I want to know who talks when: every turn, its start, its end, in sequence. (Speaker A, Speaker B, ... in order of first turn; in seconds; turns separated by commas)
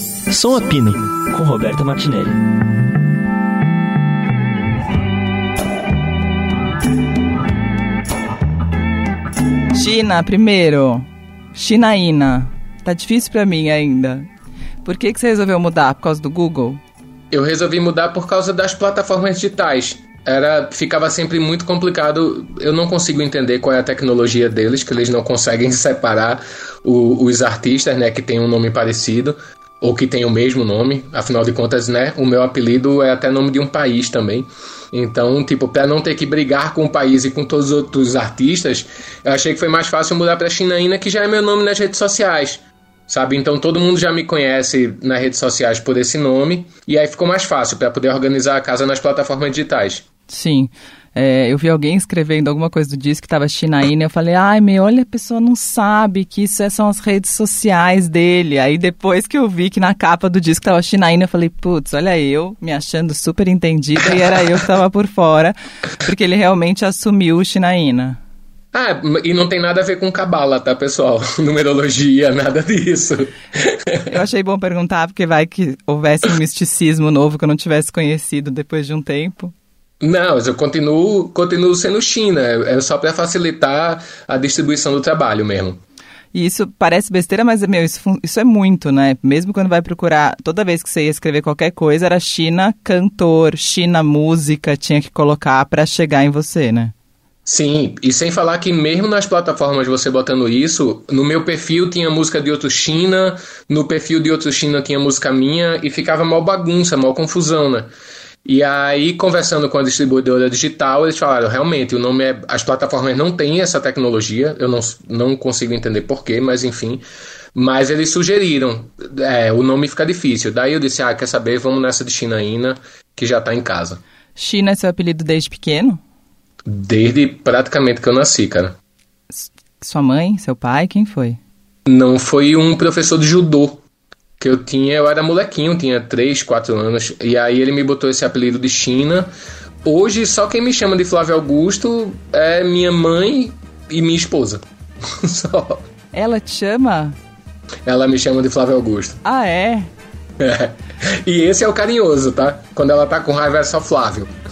Speaker A: 0.3-2.4, Speaker B: 9.7-14.3, Speaker B: 14.8-16.8, Speaker C: 17.3-50.0, Speaker B: 50.3-68.2, Speaker C: 68.7-74.1, Speaker B: 74.1-79.5, Speaker C: 80.0-85.8, Speaker B: 86.3-96.9, Speaker C: 97.5-107.9, Speaker C: 108.4-117.0, Speaker C: 117.5-124.0, Speaker B: 124.3-126.0, Speaker C: 126.7-128.8, Speaker B: 129.3-131.4, Speaker C: 131.9-133.8, Speaker C: 134.4-139.3, Speaker C: 139.8-145.8, Speaker B: 146.1-147.2, Speaker C: 147.8-149.2, Speaker B: 149.2-149.9, Speaker C: 150.4-154.3